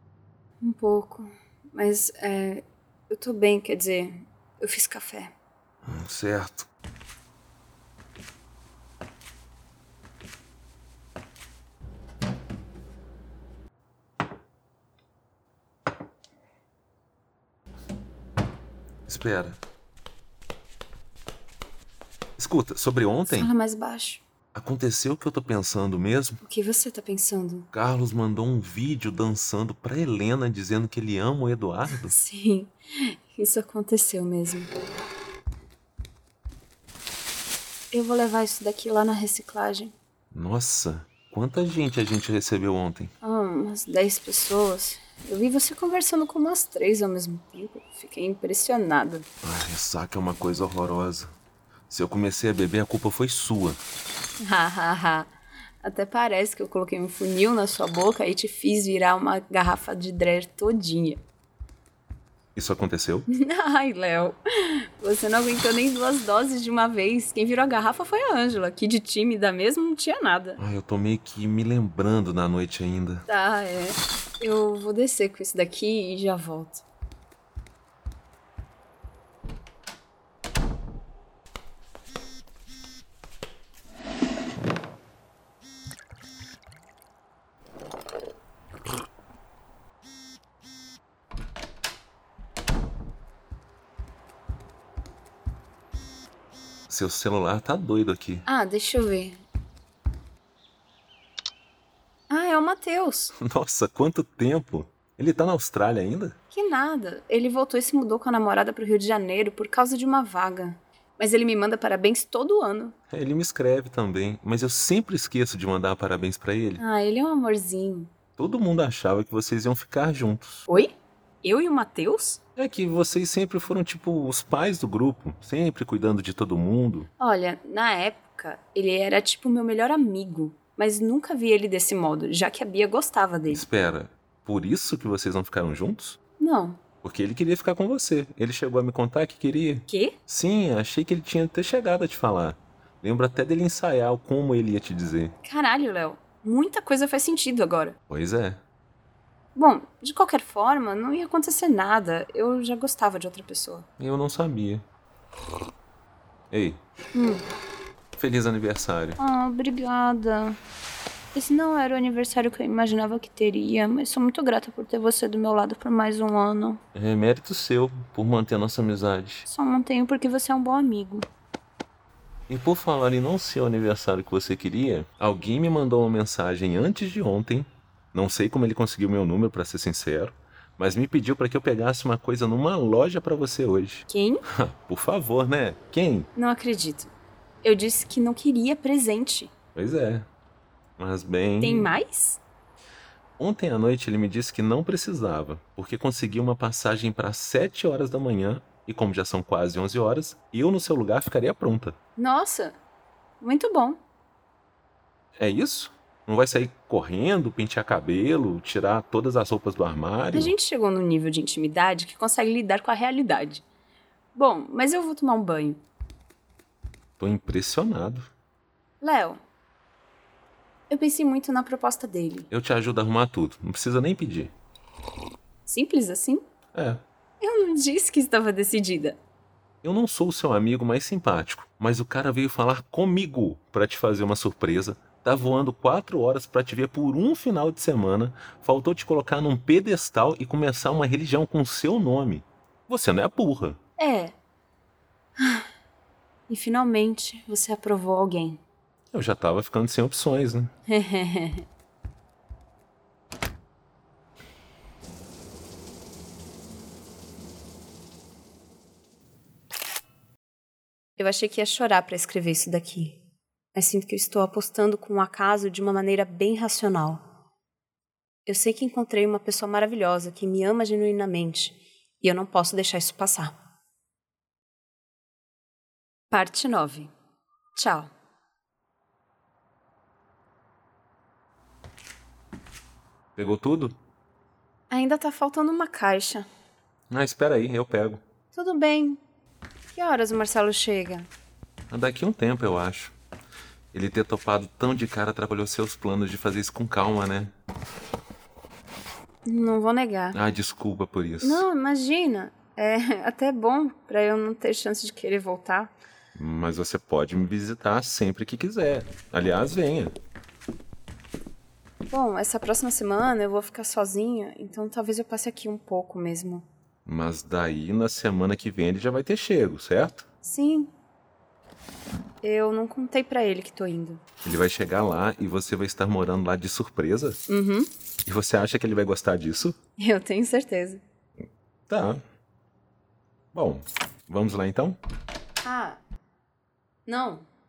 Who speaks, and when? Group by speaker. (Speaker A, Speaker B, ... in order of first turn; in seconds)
Speaker A: 0.6-5.3, 23.3-24.2, 26.4-27.7, 32.0-34.7, 37.9-39.9, 43.2-49.2, 54.4-61.2, 63.3-70.6, 73.3-76.8, 98.5-99.4, 102.3-103.3, 106.5-112.9, 116.8-118.1, 121.4-122.4, 127.2-133.6, 136.4-136.8, 139.9-140.2, 145.4-148.0, 149.5-153.9, 157.1-157.4, 159.2-160.6, 161.3-166.8, 169.4-171.2, 184.1-184.4, 186.3-187.1, 187.6-189.5, 191.6-192.4, 202.2-202.8, 203.4-204.0, 210.3-213.6, 214.3-215.8, 219.0-219.4, 220.9-222.5, 225.7-226.4, 227.4-229.2, 244.0-244.3, 245.4-245.7, 246.5-248.6, 250.9-251.6, 261.2-263.2, 263.7-267.2, 268.4-273.6, 276.3-277.1, 277.7-278.1, 284.9-286.4, 288.5-289.2, 289.9-291.3, 299.4-300.4, 301.4-305.9, 312.1-316.7, 320.4-320.9, 322.4-324.2, 327.5-327.9, 330.0-331.0, 335.6-336.0, 337.1-337.4
Speaker B: 5.8-6.7, 19.1-19.6, 22.4-23.5, 24.5-26.4, 27.7-32.2, 40.3-43.1, 49.4-51.3, 51.9-53.8, 62.5-63.3, 70.6-73.3, 96.9-98.5, 103.4-106.4, 113.1-116.8, 118.4-120.7, 122.5-127.1, 133.5-136.2, 137.0-145.3, 148.1-148.6, 154.0-154.8, 156.5-156.8, 158.2-159.2, 166.9-169.4, 172.5-186.3, 189.7-190.3, 191.0-191.9, 193.4-202.0, 205.4-210.5, 217.2-218.3, 222.5-224.5, 226.7-227.0, 229.8-243.8, 249.1-250.7, 283.4-284.0, 287.1-288.2, 291.9-293.1, 293.9-297.5, 300.3-301.7, 306.3-310.2, 317.1-320.2, 324.4-327.4, 328.2-329.8, 331.9-332.2, 333.5-335.0